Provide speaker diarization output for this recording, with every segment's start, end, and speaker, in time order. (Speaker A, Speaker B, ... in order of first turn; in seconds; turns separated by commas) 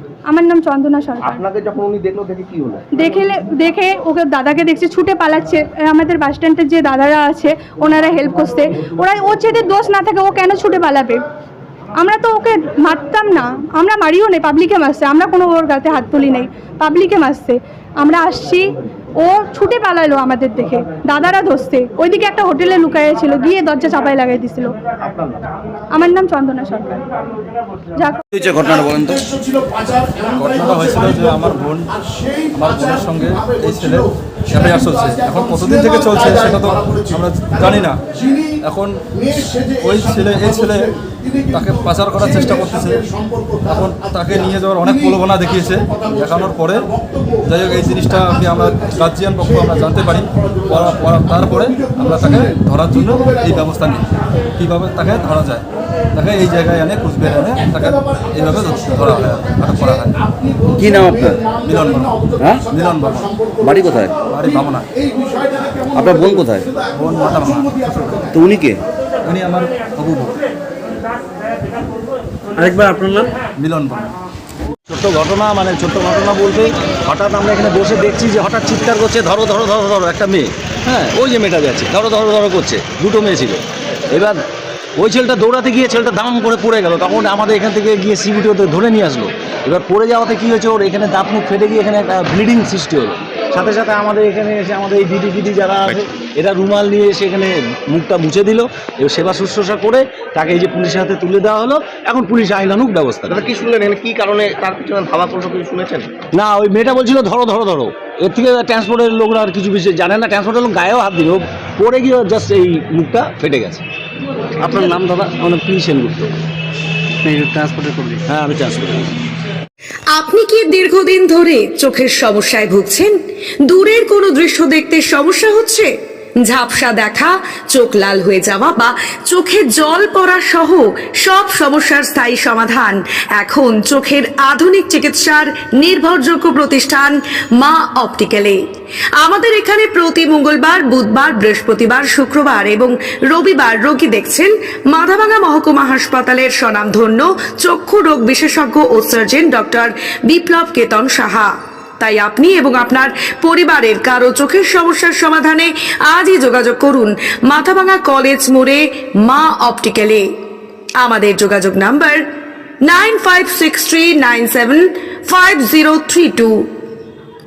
Speaker A: 0.3-1.4, Speaker B: 1.2-2.8, Speaker A: 2.9-11.2, Speaker A: 12.0-24.7, Speaker B: 25.0-25.5, Speaker A: 25.9-27.1, Speaker A: 27.9-28.2, Speaker C: 28.3-29.3, Speaker D: 30.3-31.9, Speaker D: 32.5-38.0, Speaker D: 38.6-39.0, Speaker D: 39.5-40.9, Speaker D: 41.5-43.1, Speaker D: 43.6-46.9, Speaker D: 47.5-55.6, Speaker D: 56.1-60.1, Speaker C: 60.8-61.4, Speaker D: 61.6-63.3, Speaker C: 62.4-62.6, Speaker C: 63.6-64.2, Speaker D: 64.3-64.8, Speaker C: 65.9-66.7, Speaker D: 66.9-68.3, Speaker C: 68.3-68.8, Speaker D: 69.2-70.4, Speaker E: 72.8-73.1, Speaker D: 73.6-74.1, Speaker E: 74.9-84.4, Speaker E: 85.0-103.4, Speaker B: 103.3-106.1, Speaker E: 106.3-113.8, Speaker E: 114.6-116.3, Speaker E: 118.3-119.1, Speaker F: 120.1-123.2, Speaker F: 123.7-125.9, Speaker F: 126.4-138.6, Speaker F: 139.2-160.3, Speaker F: 161.0-162.2, Speaker F: 162.8-166.7